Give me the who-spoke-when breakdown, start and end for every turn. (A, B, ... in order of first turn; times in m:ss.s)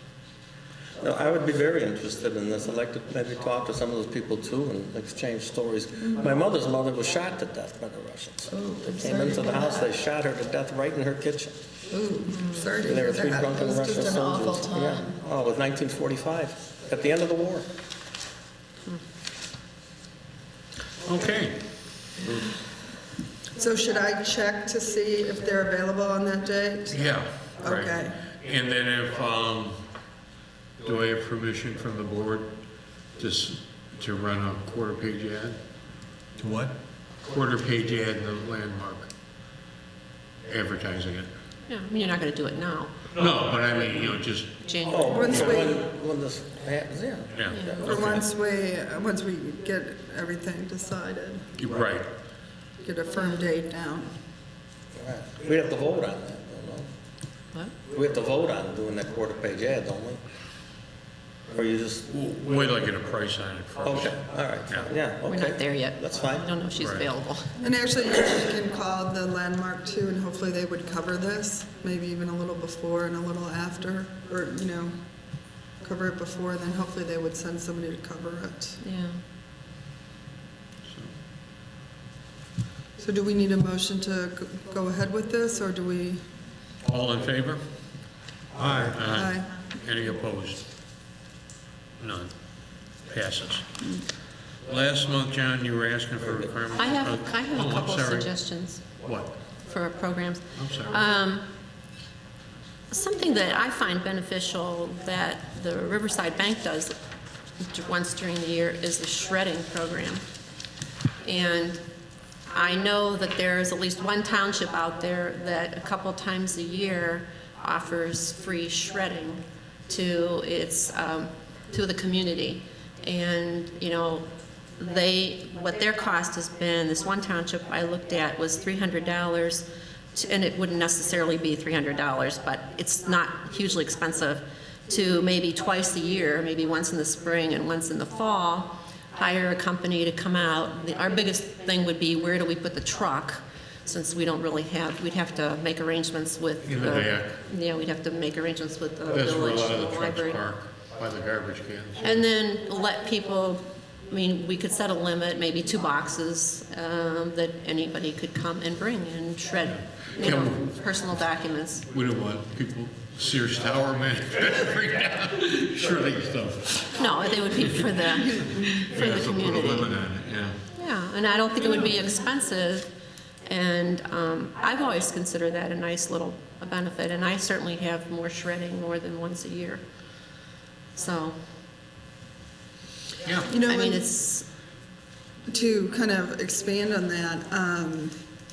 0:01.0-0:11.5 A
0:08.5-0:09.8 B
0:11.9-0:15.1 B
0:12.3-0:12.7 C
0:12.8-0:17.7 A
0:21.0-0:22.5 D
0:23.6-0:28.2 B
0:26.9-0:29.8 D
0:30.8-0:32.5 D
0:33.2-0:35.6 D
0:36.4-0:36.7 D
0:37.2-0:39.1 D
0:40.4-0:41.3 D
0:41.7-0:43.0 C
0:43.1-0:44.6 D
0:44.6-0:45.4 C
0:44.8-0:48.1 A
0:45.1-0:45.8 B
0:45.2-0:45.6 D
0:47.3-0:48.2 D
0:47.5-0:47.8 C
0:47.8-0:51.4 B
0:51.6-0:52.1 D
0:52.8-0:54.1 B
0:55.0-0:56.9 A
0:57.9-1:00.2 A
1:01.5-1:02.0 A
1:02.1-1:04.9 D
1:03.8-1:06.5 A
1:05.3-1:07.5 C
1:06.8-1:07.0 D
1:07.6-1:18.8 B
1:18.8-1:19.2 C
1:20.8-1:21.1 D
1:23.0-1:26.2 B
1:26.8-1:27.6 D
1:28.6-1:30.6 D
1:28.6-1:29.5 B
1:32.0-1:32.3 D
1:32.9-1:33.6 D
1:34.6-1:38.3 D
1:36.8-1:38.9 C
1:38.9-1:39.3 D
1:39.6-1:41.5 C
1:40.5-1:41.0 D
1:42.9-1:46.9 C
1:47.6-1:50.2 C
1:51.2-1:51.8 C
1:52.5-2:30.4 C
2:26.6-2:27.4 D
2:29.1-2:32.2 D
2:32.0-2:41.9 C
2:39.7-2:40.7 D
2:41.9-2:50.6 D
2:46.9-2:49.9 C
2:50.7-2:52.9 C
2:51.6-2:51.9 D
2:53.4-2:59.8 C
3:00.9-3:01.4 C
3:03.2-3:03.5 D
3:03.5-3:04.0 B
3:03.6-3:04.5 C
3:05.5-3:08.2 B